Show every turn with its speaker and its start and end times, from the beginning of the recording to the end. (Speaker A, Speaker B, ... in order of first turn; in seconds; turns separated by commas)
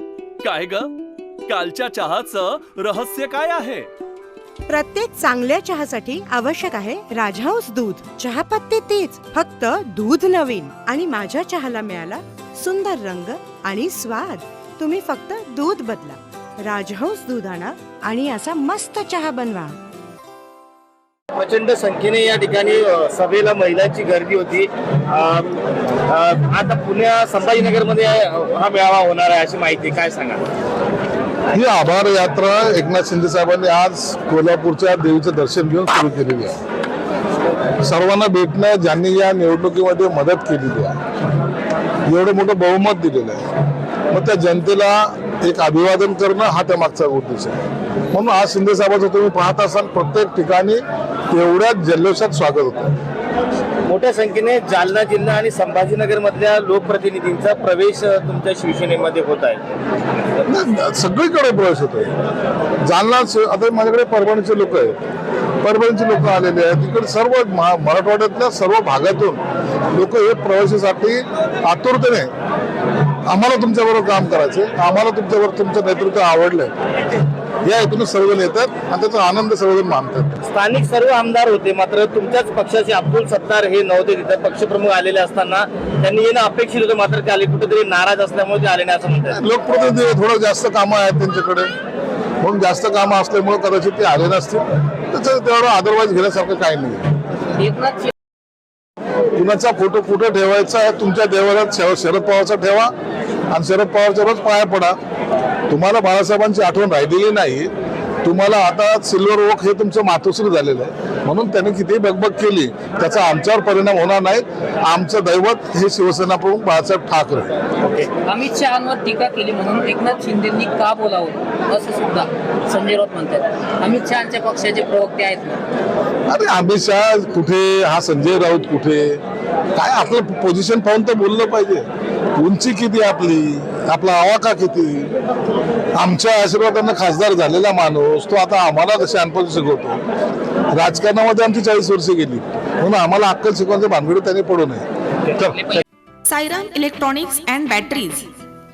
Speaker A: 0.4-0.9, Speaker A: 1.5-3.9, Speaker B: 4.7-19.8, Speaker C: 21.3-25.6, Speaker C: 26.1-30.4, Speaker D: 31.5-36.6, Speaker D: 37.8-41.0, Speaker D: 42.1-43.4, Speaker D: 44.1-47.6, Speaker D: 48.1-52.9, Speaker C: 53.9-59.6, Speaker D: 60.5-62.1, Speaker D: 62.9-65.0, Speaker D: 65.6-69.4, Speaker D: 69.9-72.3, Speaker D: 73.3-76.7, Speaker D: 77.7-80.4, Speaker C: 80.5-89.4, Speaker D: 89.3-91.7, Speaker D: 92.4-97.1, Speaker E: 97.5-98.1, Speaker D: 99.3-102.9, Speaker D: 103.5-105.0, Speaker D: 105.7-107.7, Speaker D: 108.2-117.5, Speaker E: 118.2-125.6, Speaker D: 126.3-129.2, Speaker D: 129.8-135.1, Speaker D: 136.0-140.0, Speaker D: 140.7-145.8, Speaker F: 146.3-148.3